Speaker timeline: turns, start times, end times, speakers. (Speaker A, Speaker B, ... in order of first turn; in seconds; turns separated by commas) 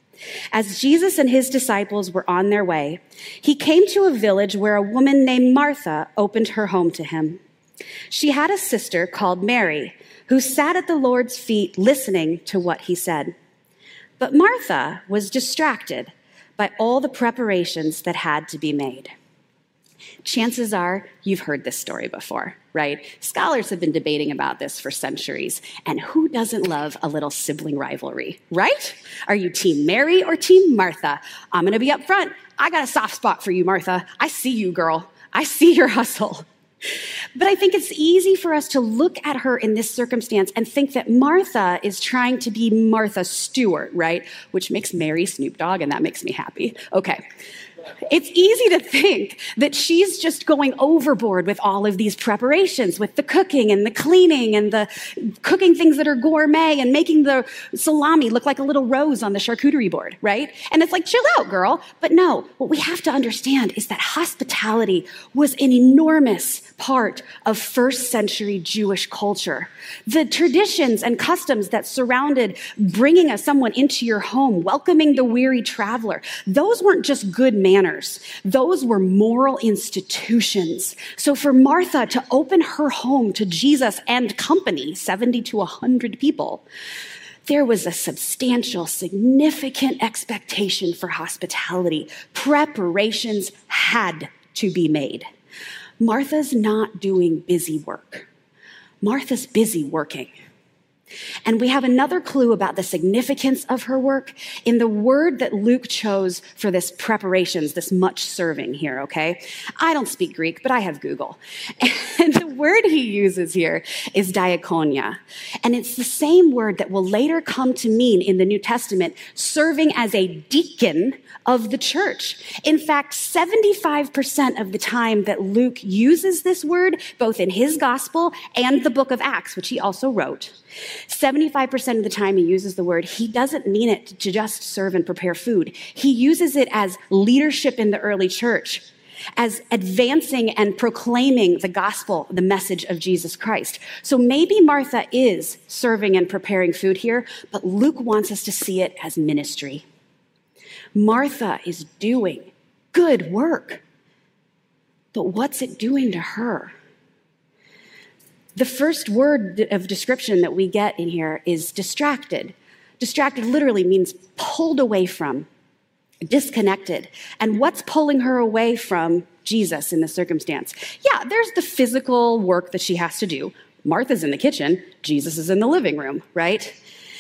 Speaker A: 0.5-7.4, Speaker A: 8.1-13.3, Speaker A: 14.2-19.1, Speaker A: 20.2-36.5, Speaker A: 37.4-47.2, Speaker A: 48.1-86.7, Speaker A: 87.5-95.3, Speaker A: 96.0-98.3, Speaker A: 99.0-100.3, Speaker A: 101.5-130.6, Speaker A: 131.1-138.8, Speaker A: 139.4-149.9, Speaker A: 150.9-153.8, Speaker A: 155.1-156.8, Speaker A: 158.6-165.5, Speaker A: 166.2-176.8